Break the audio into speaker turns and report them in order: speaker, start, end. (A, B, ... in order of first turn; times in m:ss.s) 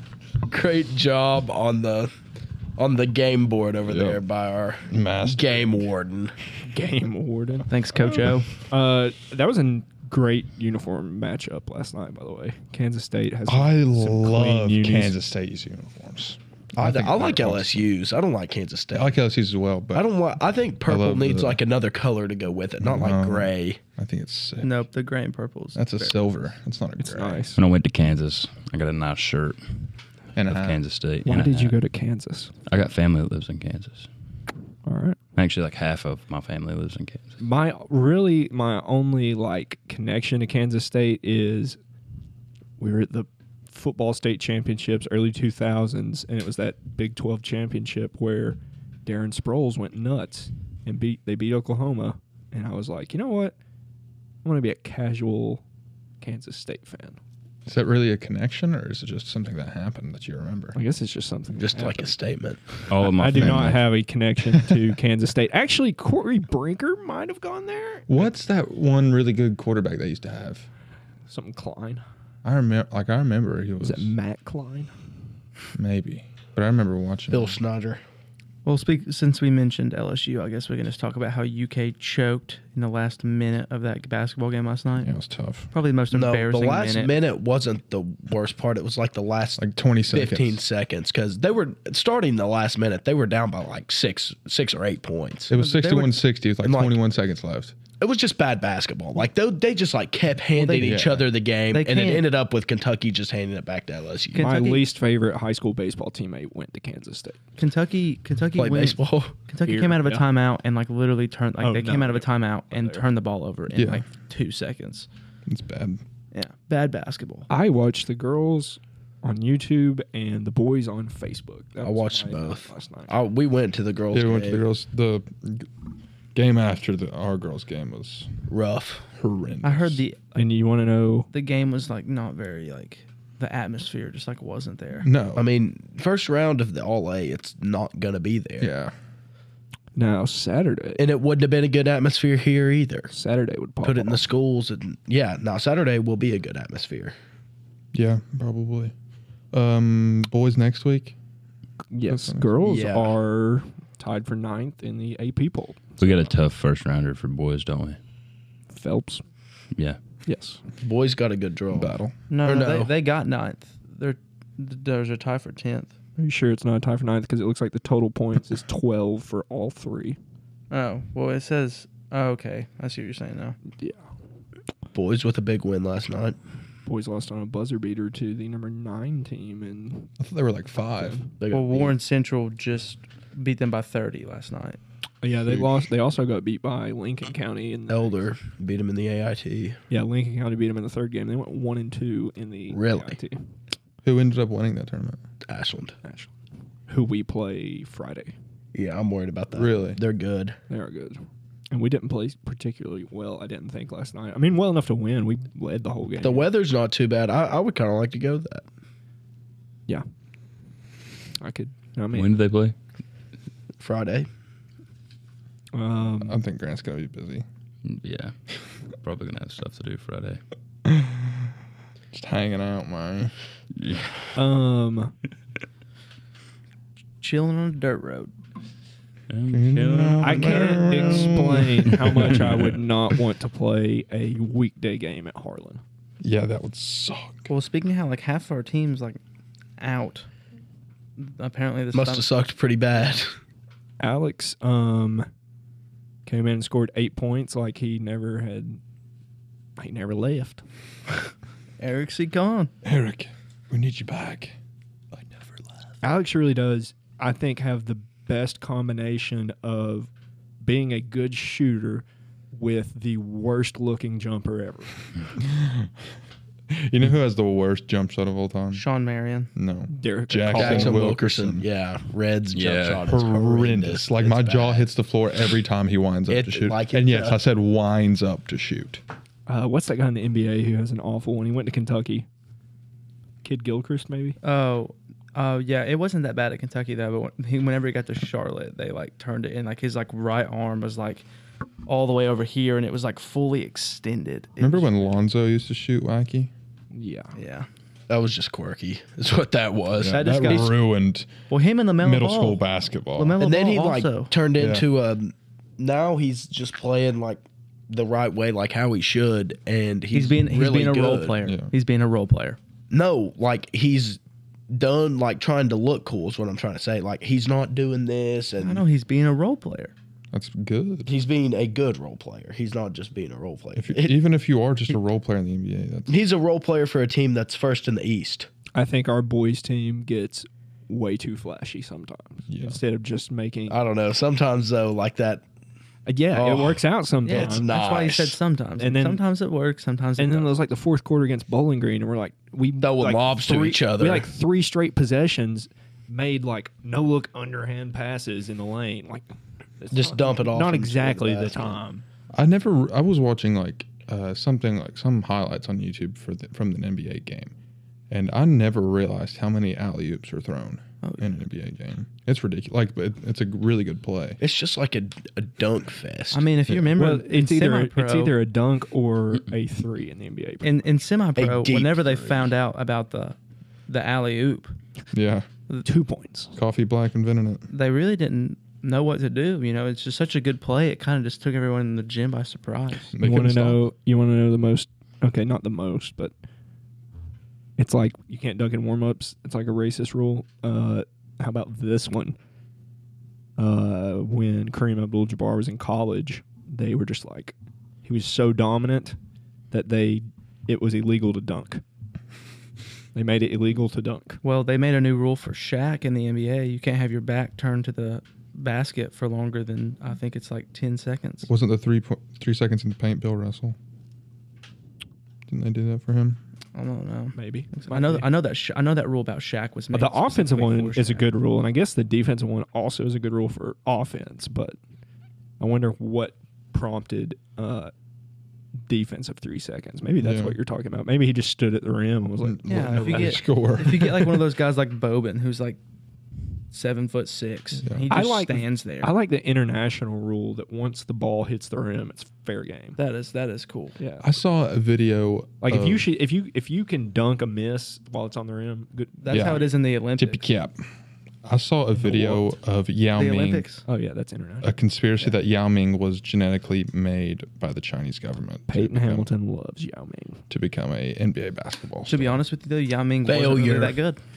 0:00.5-0:02.1 A
0:02.8-0:06.3 A
0:03.9-0:04.2 B
0:04.9-0:05.8 B
0:06.6-0:07.7 C
0:07.7-0:08.6 D
0:08.7-0:15.2 C
0:13.4-0:17.9 B
0:16.8-0:19.2 A
0:18.9-0:20.1 B
0:19.9-0:23.8 A
0:20.8-0:21.6 B
0:22.8-0:24.7 B
0:24.6-0:26.2 D
0:25.7-0:27.5 B
0:27.0-0:27.6 C
0:27.6-0:29.8 E
0:30.4-0:30.8 B
0:30.4-0:31.8 E
0:31.2-0:32.5 C
0:32.7-0:34.1 E
0:34.8-0:35.2 C
0:35.4-0:37.4 E
0:37.4-0:41.8 C
0:42.8-0:53.5 C
0:54.4-0:55.6 C
0:56.2-0:57.2 C
0:57.6-1:00.8 B
1:00.7-1:02.2 C
1:01.6-1:02.6 A
1:02.9-1:03.9 E
1:03.0-1:08.3 C
1:03.4-1:03.7 B
1:08.1-1:10.7 B
1:11.3-1:12.0 C
1:12.4-1:14.1 B
1:13.8-1:14.9 C
1:15.7-1:17.6 B
1:17.3-1:18.0 A
1:18.6-1:25.1 D
1:25.0-1:25.7 B
1:25.7-1:27.1 D
1:26.1-1:35.6 A
1:29.6-1:30.6 B
1:35.5-1:37.8 B
1:35.6-1:36.1 D
1:36.6-1:36.9 A
1:38.0-1:44.5 A
1:40.5-1:41.1 D
1:40.8-1:41.3 B
1:41.7-1:42.3 D
1:44.3-1:44.9 D
1:44.4-1:47.4 C
1:47.6-1:55.1 D
1:48.6-1:49.3 A
1:49.6-1:50.2 C
1:51.6-1:53.0 C
1:53.7-1:54.0 B
1:55.4-1:56.0 B
1:56.3-1:57.5 D
1:57.5-2:03.1 C
2:01.8-2:04.6 A
2:04.1-2:05.7 B
2:06.3-2:08.3 B
2:08.5-2:09.1 A
2:09.2-2:10.0 B
2:09.6-2:10.4 D
2:10.3-2:11.3 C
2:11.3-2:15.1 D
2:15.0-2:15.5 B
2:15.4-2:18.7 A
2:18.6-2:18.9 B
2:19.9-2:21.0 C
2:21.0-2:23.1 A
2:23.1-2:24.2 C
2:23.8-2:27.1 A
2:27.9-2:28.9 B
2:29.5-2:31.2 B
2:31.9-2:36.3 C
2:32.1-2:32.5 B
2:32.6-2:33.2 A
2:36.0-2:38.0 E
2:38.7-2:39.2 C
2:40.2-2:40.6 C
2:40.8-2:42.9 A
2:41.7-2:42.1 B
2:42.3-2:45.9 D
2:46.2-2:50.2 C
2:50.7-2:53.6 D
2:53.8-2:54.0 C
2:54.9-2:56.4 A
2:56.8-3:00.1 C
3:00.2-3:01.2 B
3:01.0-3:01.3 C
3:01.4-3:01.9 A
3:01.5-3:04.8 D
3:05.2-3:08.2 C
3:07.9-3:09.8 A
3:09.9-3:13.4 C
3:12.7-3:13.2 A
3:14.0-3:15.2 B
3:15.4-3:16.0 A
3:16.0-3:16.3 C
3:16.9-3:18.3 C
3:18.7-3:20.6 A
3:19.5-3:20.0 B
3:20.7-3:26.5 C
3:26.2-3:28.6 A
3:31.4-3:32.3 C
3:32.1-3:32.8 E
3:33.8-3:34.3 A
3:35.7-3:36.4 C
3:36.2-3:37.4 B
3:37.8-3:38.3 E
3:39.0-3:40.4 E
3:40.8-3:41.5 B
3:42.1-3:43.3 B
3:43.8-3:44.2 E
3:44.3-3:45.1 C
3:47.2-3:48.3 D
3:49.3-3:51.0 E
3:49.5-3:52.4 B
3:50.2-3:55.8 C
3:56.2-3:57.5 B
3:57.5-3:59.2 D
3:59.8-4:00.3 D
4:01.2-4:02.3 D
4:01.9-4:03.3 A
4:04.0-4:05.3 C
4:06.2-4:08.8 C
4:09.8-4:10.6 C
4:11.8-4:12.7 D
4:12.8-4:14.5 B
4:15.1-4:15.5 B
4:16.0-4:20.1 C
4:20.6-4:25.1 C
4:25.4-4:25.9 B
4:26.7-4:28.8 B
4:28.7-4:29.5 D
4:29.5-4:31.6 B
4:29.9-4:31.2 C
4:30.5-4:34.9 A
4:32.5-4:33.1 E
4:33.0-4:39.0 B
4:36.3-4:37.4 A
4:39.5-4:42.3 C
4:43.4-4:44.4 C
4:44.4-4:51.2 D
4:51.8-4:55.2 D
4:54.6-4:56.5 B
4:56.9-4:57.3 C
4:57.3-4:57.7 D
4:58.1-5:00.7 A
4:59.9-5:01.3 B
5:00.1-5:00.7 D
5:01.5-5:02.6 D
5:02.0-5:03.4 B
5:03.1-5:04.3 D
5:03.4-5:11.4 A
5:04.6-5:04.9 B
5:10.1-5:12.6 D
5:11.4-5:11.7 B
5:12.9-5:18.8 A
5:18.6-5:19.9 D
5:20.3-5:21.2 B
5:21.0-5:24.2 A
5:23.8-5:26.2 B
5:26.1-5:28.5 A
5:28.7-5:33.8 C
5:32.5-5:32.8 B
5:33.7-5:35.4 A
5:36.0-5:37.7 C
5:36.3-5:38.4 A
5:37.2-5:40.5 D
5:38.8-5:39.2 C
5:40.2-5:49.2 C
5:42.8-5:44.3 A
5:49.8-5:52.0 C
5:49.9-5:51.8 A
5:52.3-5:57.5 B
5:58.1-6:04.4 B
6:01.0-6:01.3 D
6:04.4-6:06.5 A
6:06.3-6:08.4 D
6:07.0-6:10.9 C
6:10.6-6:13.4 D
6:11.4-6:12.5 A
6:13.9-6:14.7 D
6:15.1-6:15.4 B
6:15.8-6:16.6 C
6:16.6-6:17.6 B
6:17.7-6:23.1 D
6:23.1-6:23.9 B
6:23.2-6:26.3 C
6:27.8-6:32.4 C
6:33.6-6:39.2 C
6:39.7-6:41.8 C
6:43.1-6:44.4 C
6:44.4-6:51.5 D
6:51.4-6:53.8 B
6:55.5-6:56.4 B
6:56.7-7:01.3 D
6:57.3-6:58.3 C
6:59.9-7:04.8 C
7:05.6-7:07.9 C
7:08.8-7:13.4 C
7:10.2-7:10.6 B
7:12.4-7:14.4 B
7:12.6-7:15.8 D
7:16.7-7:19.1 D
7:17.8-7:18.1 B
7:18.1-7:23.0 C
7:23.0-7:23.9 D
7:24.0-7:24.3 C
7:24.2-7:26.0 B
7:25.6-7:29.6 C
7:29.2-7:30.4 D
7:29.3-7:30.8 B
7:31.4-7:33.7 B
7:33.1-7:33.8 D
7:33.8-7:34.7 C
7:34.6-7:39.3 B
7:38.7-7:40.4 C
7:40.5-7:42.4 B
7:42.0-7:44.2 D
7:43.2-7:44.0 A